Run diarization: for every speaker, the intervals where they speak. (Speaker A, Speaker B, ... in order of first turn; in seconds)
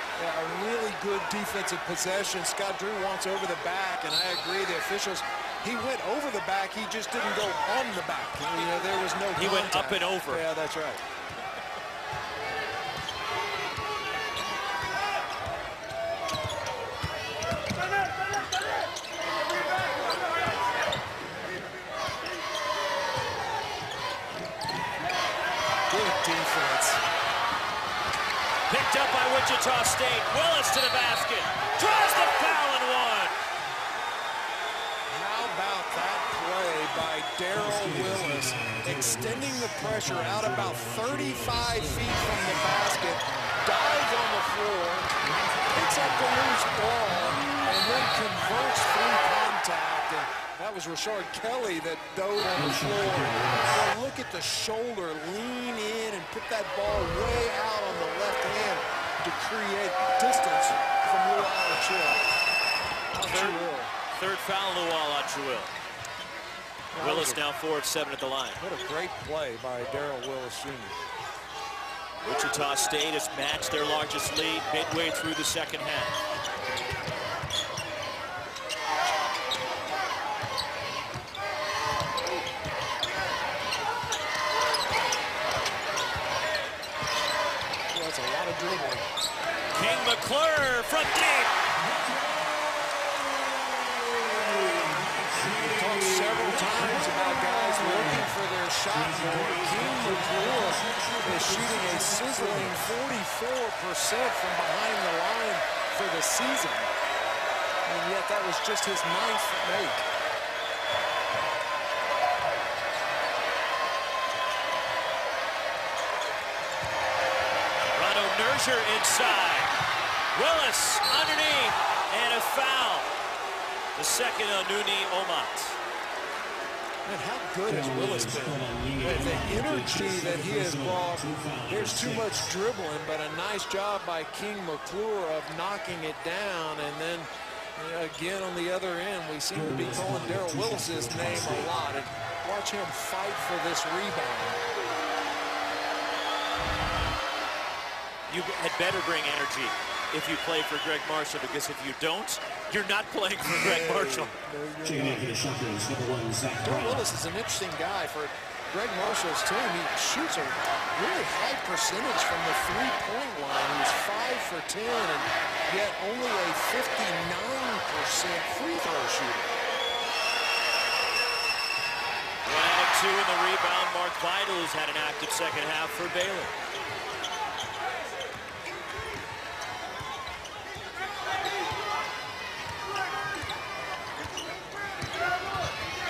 Speaker A: 0.2-11.0, 25.9-27.0, 35.1-45.1, 45.7-62.3, 63.1-63.9, 66.9-67.4, 68.6-71.0, 87.9-89.1, 95.7-106.9, 107.8-110.0, 127.0-144.6, 153.5-155.4, 156.6-169.6
Speaker B: 9.4-10.4, 28.7-33.3, 63.2-65.7, 67.0-68.6, 72.2-76.2, 89.7-91.6, 117.9-119.7, 120.3-123.1, 124.0-125.8, 148.3-154.3, 172.4-176.6
Speaker C: 37.5-42.8, 52.5-53.8, 95.0-102.9, 127.7-132.5, 139.5-141.8, 154.8-157.1